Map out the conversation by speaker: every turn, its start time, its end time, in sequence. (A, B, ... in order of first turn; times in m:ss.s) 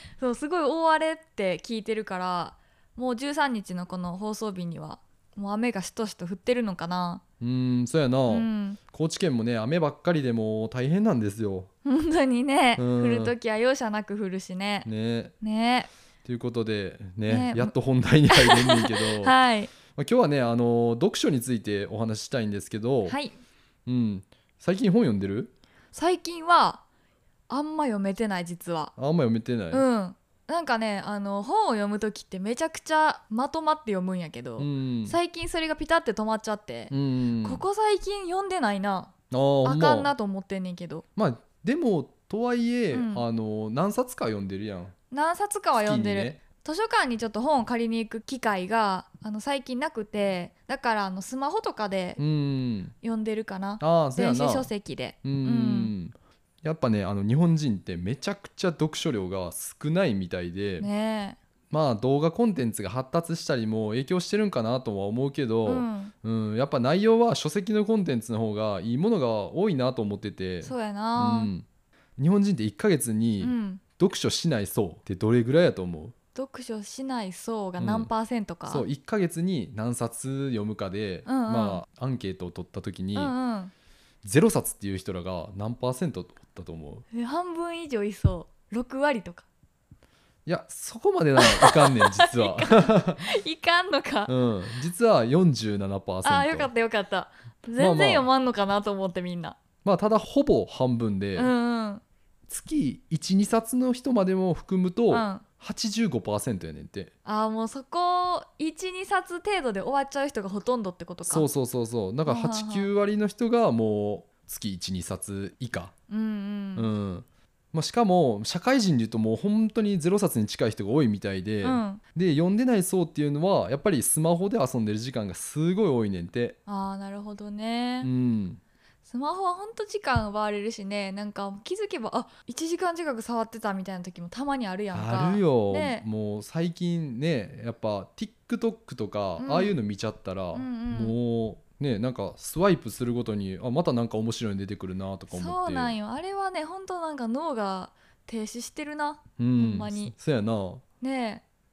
0:00.2-0:07.2 A
0:07.4-0:11.7 B
0:08.3-0:08.8 A
0:11.8-0:14.9 A
0:12.8-0:13.3 B
0:14.8-0:15.3 B
0:15.4-0:15.9 A
0:16.2-0:19.4 B
0:17.3-0:17.7 A
0:18.3-0:19.7 A
0:19.9-0:23.2 B
0:23.0-0:23.4 A
0:23.8-0:25.5 B
0:25.9-0:26.8 A
0:27.5-0:28.9 A
0:29.0-0:29.8 B
0:29.7-0:39.1 A
0:34.6-0:35.2 B
0:36.9-0:37.6 B
0:39.3-0:40.1 B
0:39.6-0:41.0 A
0:41.2-0:44.9 B
0:42.9-0:43.2 A
0:45.1-0:52.2 A
0:45.7-0:46.4 B
0:52.2-0:52.9 B
0:53.0-0:55.9 A
0:53.8-0:54.7 B
0:55.2-1:00.9 B
1:00.8-1:01.4 A
1:01.7-1:11.6 B
1:05.6-1:06.1 A
1:10.6-1:11.5 A
1:12.2-1:16.1 B
1:13.4-1:13.8 A
1:16.3-1:18.9 A
1:17.8-1:18.1 B
1:18.6-1:23.3 B
1:21.2-1:21.8 A
1:23.1-1:23.7 A
1:24.2-1:27.0 B
1:27.1-1:29.5 A
1:30.4-1:33.2 B
1:31.4-1:34.3 A
1:34.3-1:36.7 B
1:36.2-1:39.6 A
1:37.8-1:38.3 B
1:39.8-1:41.5 B
1:41.4-1:42.0 A
1:42.5-1:47.1 B
1:45.1-1:45.4 A
1:47.2-1:51.5 A
1:51.2-1:55.9 B
1:52.2-1:52.9 A
1:56.1-1:56.9 A
1:56.8-2:06.6 B
2:01.6-2:02.0 A
2:06.7-2:08.1 A
2:08.0-2:08.6 B
2:09.1-2:16.0 A
2:14.9-2:26.0 B
2:19.4-2:19.8 A
2:20.5-2:21.2 A
2:25.3-2:30.1 A
2:29.4-2:30.8 B
2:31.0-2:31.4 A